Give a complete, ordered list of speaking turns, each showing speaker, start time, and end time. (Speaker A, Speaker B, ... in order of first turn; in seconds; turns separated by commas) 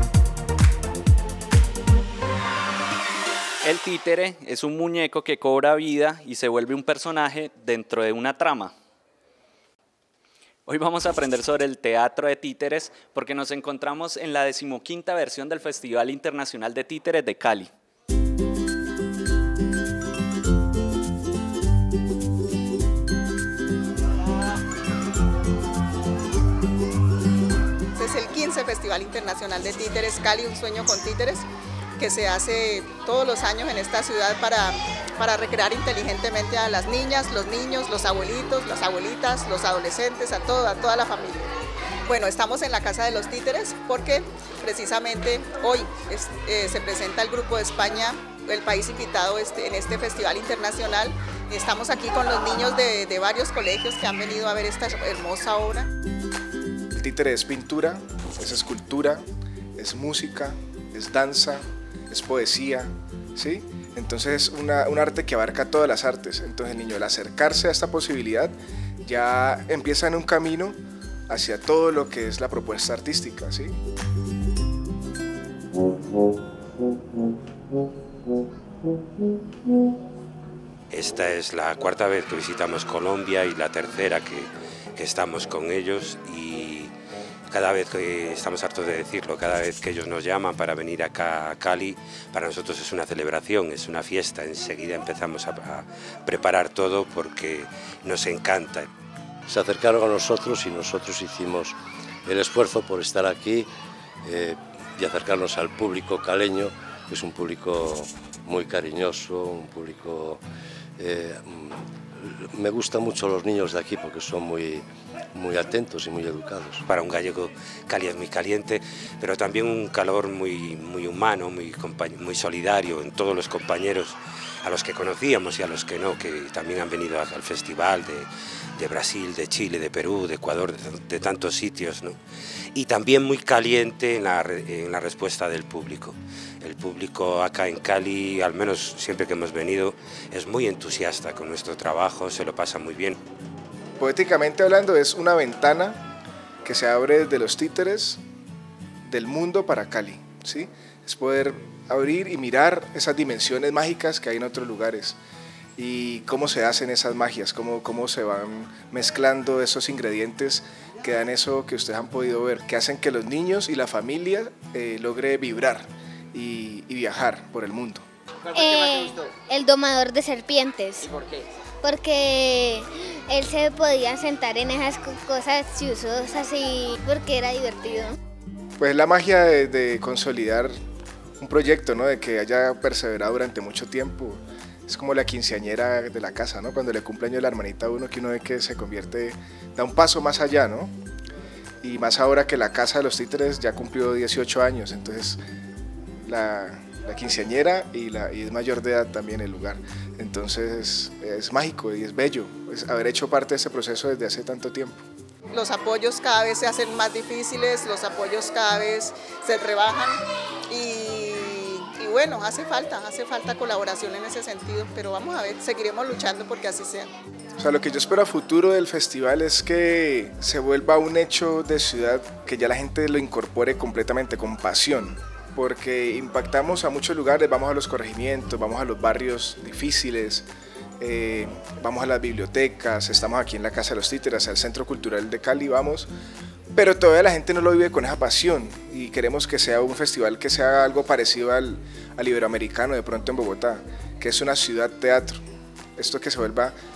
Speaker A: 3.6-8.7, Speaker A: 10.7-17.7, Speaker B: 27.9-31.4, Speaker B: 32.0-41.5, Speaker B: 42.1-55.9, Speaker C: 57.0-59.2, Speaker C: 59.8-70.8, Speaker C: 71.3-73.7, Speaker D: 80.9-86.9, Speaker D: 87.5-98.9, Speaker E: 99.5-103.7, Speaker E: 104.2-110.4, Speaker E: 111.0-116.8, Speaker D: 116.9-132.2, Speaker D: 132.7-143.2, Speaker C: 144.0-146.0, Speaker C: 146.6-148.2, Speaker C: 149.0-155.2, Speaker C: 155.8-168.0, Speaker F: 168.5-171.1, Speaker F: 171.8-178.2, Speaker C: 178.8-180.7, Speaker C: 181.4-190.9, Speaker C: 191.8-195.4, Speaker C: 196.2-205.0, Speaker B: 205.5-217.1, Speaker C: 217.6-230.4, Speaker C: 231.0-236.1, Speaker C: 236.7-245.4, Speaker C: 246.0-246.8